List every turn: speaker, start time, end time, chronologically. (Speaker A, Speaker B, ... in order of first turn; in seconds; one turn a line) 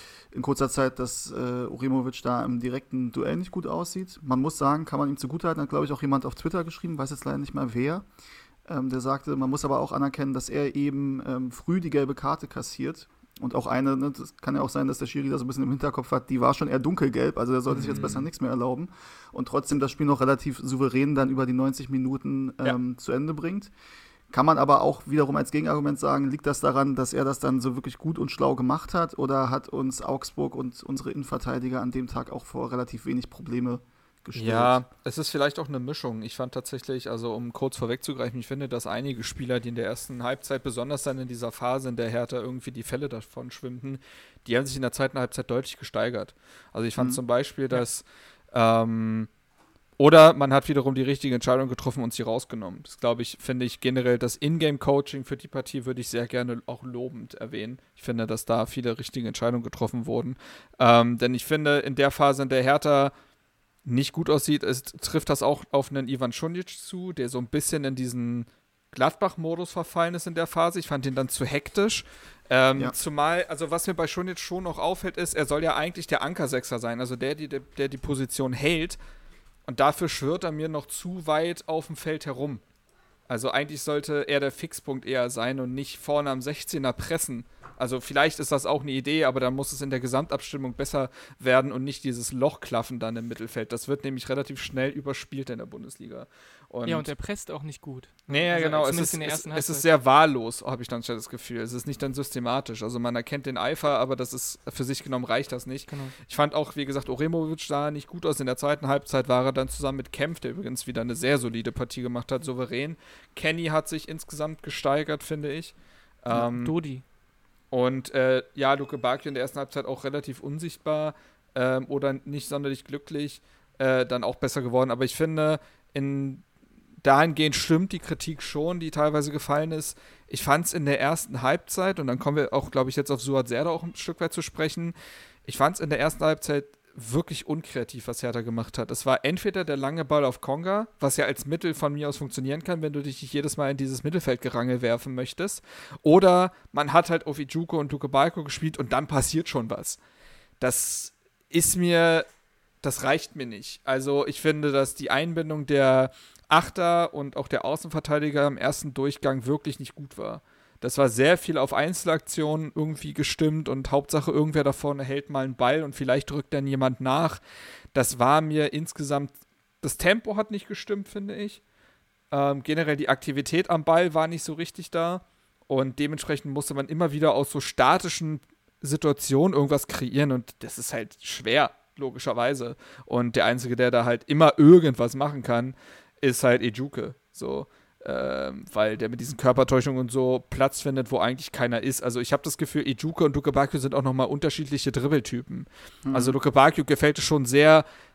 Speaker A: 0.3-8.1
Speaker A: 8.6-23.7
Speaker B: 17.7-18.3
Speaker A: 24.3-34.8
Speaker B: 34.3-49.3
Speaker B: 50.0-63.1
Speaker B: 63.8-79.0
Speaker B: 79.7-82.6
Speaker B: 83.3-97.1
Speaker C: 96.8-99.9
Speaker B: 98.3-116.7
Speaker C: 105.9-106.1
Speaker C: 116.3-117.0
Speaker B: 117.7-126.4
Speaker B: 127.0-134.9
Speaker B: 135.4-150.0
Speaker B: 150.6-152.2
Speaker B: 152.8-167.4
Speaker B: 167.9-171.6
Speaker B: 172.3-197.8
Speaker A: 196.0-196.3